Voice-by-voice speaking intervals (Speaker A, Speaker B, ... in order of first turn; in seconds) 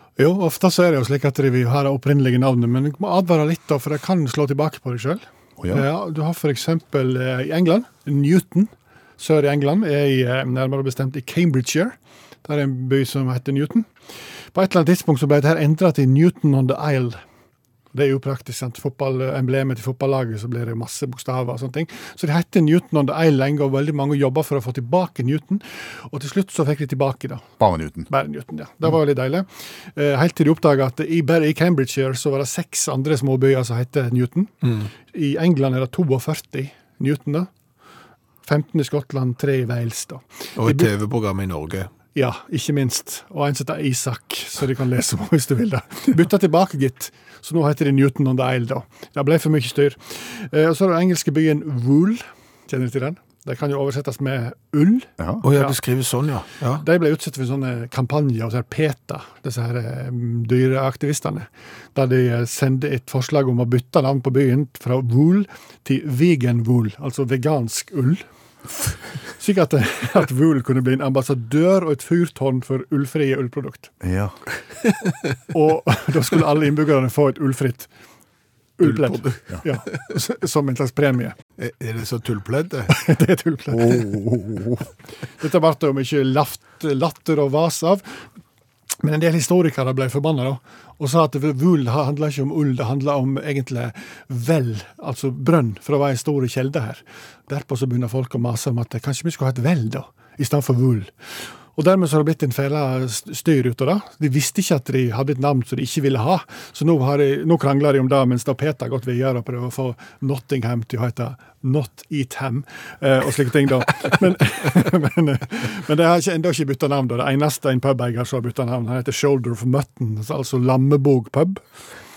Speaker A: 0.2-13.9, 14.5-17.2, 17.9-27.4, 28.1-34.5, 35.1-37.5, 38.4-40.9, 42.1-55.8, 56.8-68.2, 69.4-73.9, 75.5-77.9, 78.8-81.4, 82.9-84.2, 85.4-88.0, 89.0-101.1, 101.8-121.6
Speaker B: 5.6-5.9, 27.6-28.1, 55.2-55.4, 74.0-74.4, 83.7-84.8
Speaker C: 34.6-34.9, 40.6-41.9, 55.4-56.9, 78.8-79.5, 81.6-83.0